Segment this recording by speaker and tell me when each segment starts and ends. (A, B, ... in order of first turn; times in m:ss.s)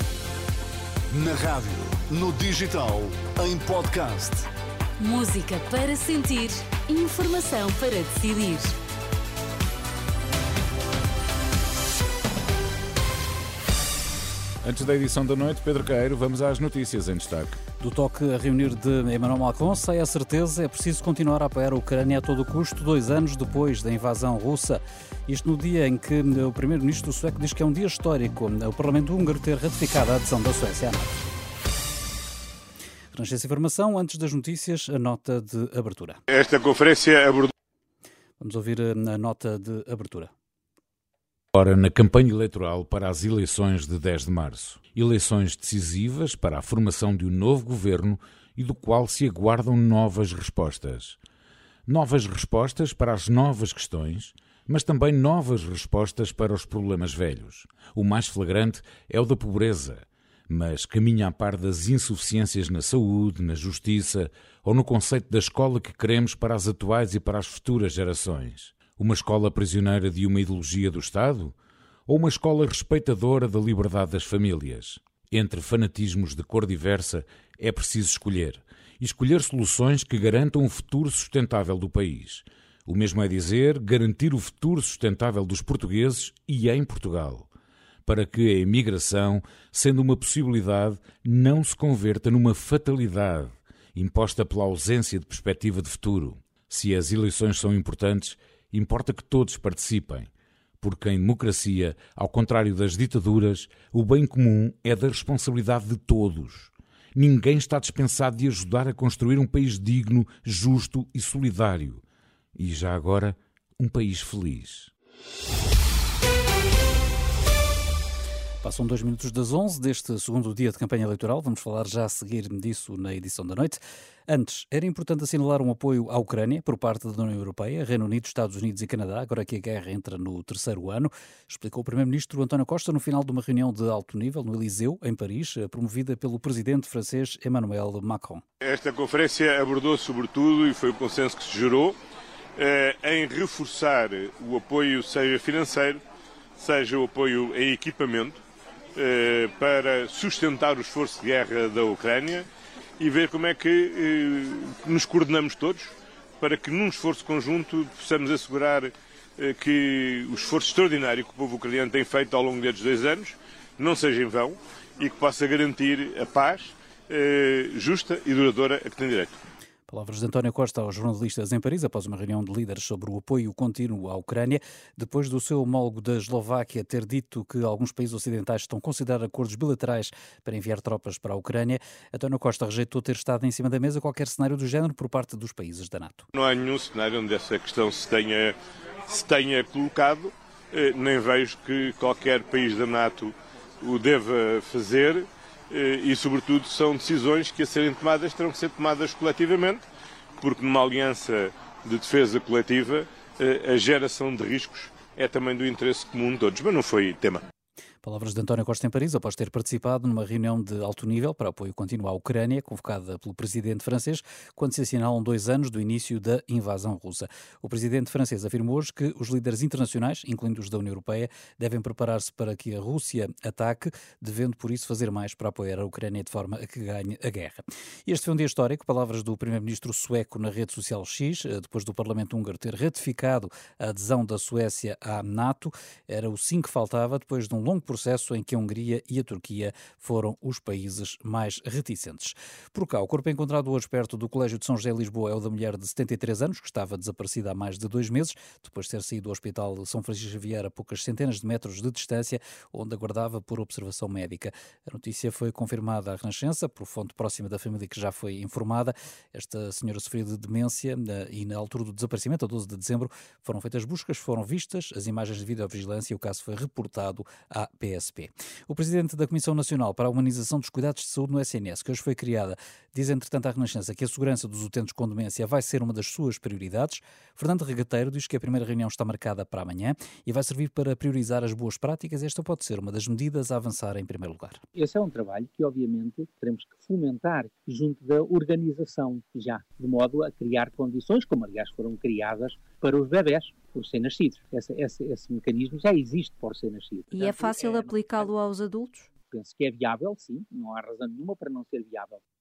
0:01.1-0:04.5 A
0:05.0-0:08.8 B
0:14.6-0:17.6 C
0:17.8-0:31.2 D
0:33.1-0:36.2 D
0:36.3-0:37.5 E
0:38.4-0:40.3 D
0:41.5-0:51.2 C
0:51.9-1:11.6 C
1:12.1-1:27.5 C
1:28.0-1:52.0 C
1:52.6-1:54.9 C
1:58.6-2:18.4 D
2:18.6-2:22.0 E
2:22.6-2:26.0 E
2:26.6-2:28.4 E
2:29.0-2:32.5 E
2:33.0-2:49.4 E
2:49.9-3:06.3 D
3:06.3-3:08.5 E
3:09.1-3:19.8 E
3:20.4-3:27.4 E
3:28.0-4:44.6 D
4:44.8-4:58.3 F
4:57.1-4:59.1 G
4:59.3-5:02.2 F